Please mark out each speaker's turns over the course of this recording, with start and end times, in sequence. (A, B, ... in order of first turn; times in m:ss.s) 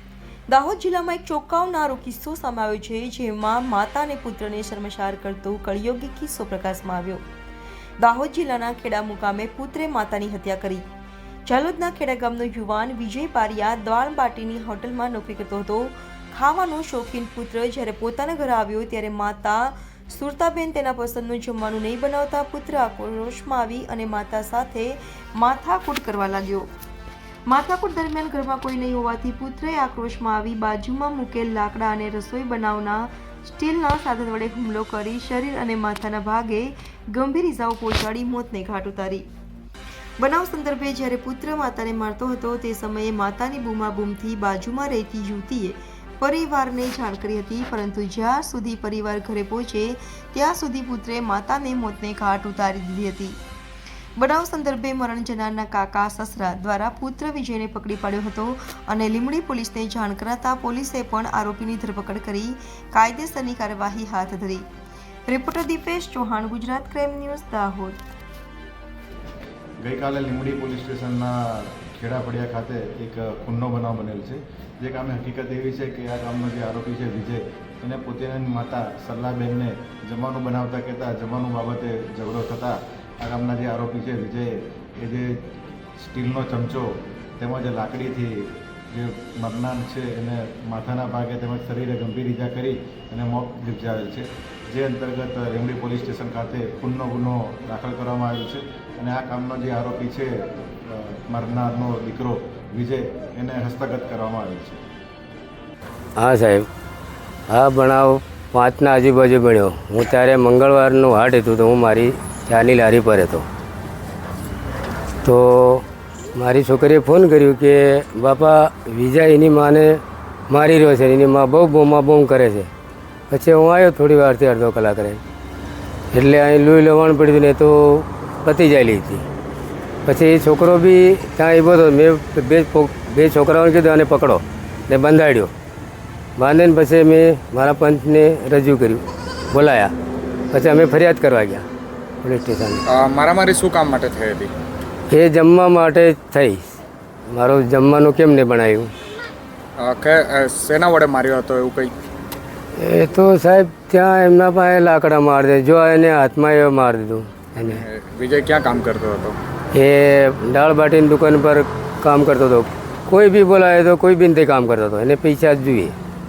0:00.5-0:07.2 A
0:08.0-0:10.8 A
0:11.4-0:26.7 A
0:27.5-0:39.2 A
0:40.2-0:53.4 A
0:54.2-1:04.6 A
1:05.3-1:08.0 A
1:09.8-1:25.4 B
1:26.0-1:44.8 B
1:46.2-1:46.7 C
1:47.5-1:53.4 C
1:55.2-2:02.7 C
2:03.3-2:05.2 C
2:06.1-2:09.2 C
2:10.0-2:15.5 C
2:16.4-2:19.9 C
2:20.5-2:21.6 C
2:22.2-2:22.8 C
2:22.9-2:24.5 D
2:25.1-2:26.8 C
2:27.3-2:28.9 C
2:29.8-2:31.9 D
2:32.8-2:37.8 C
2:37.6-2:39.4 D
2:39.7-2:46.0 C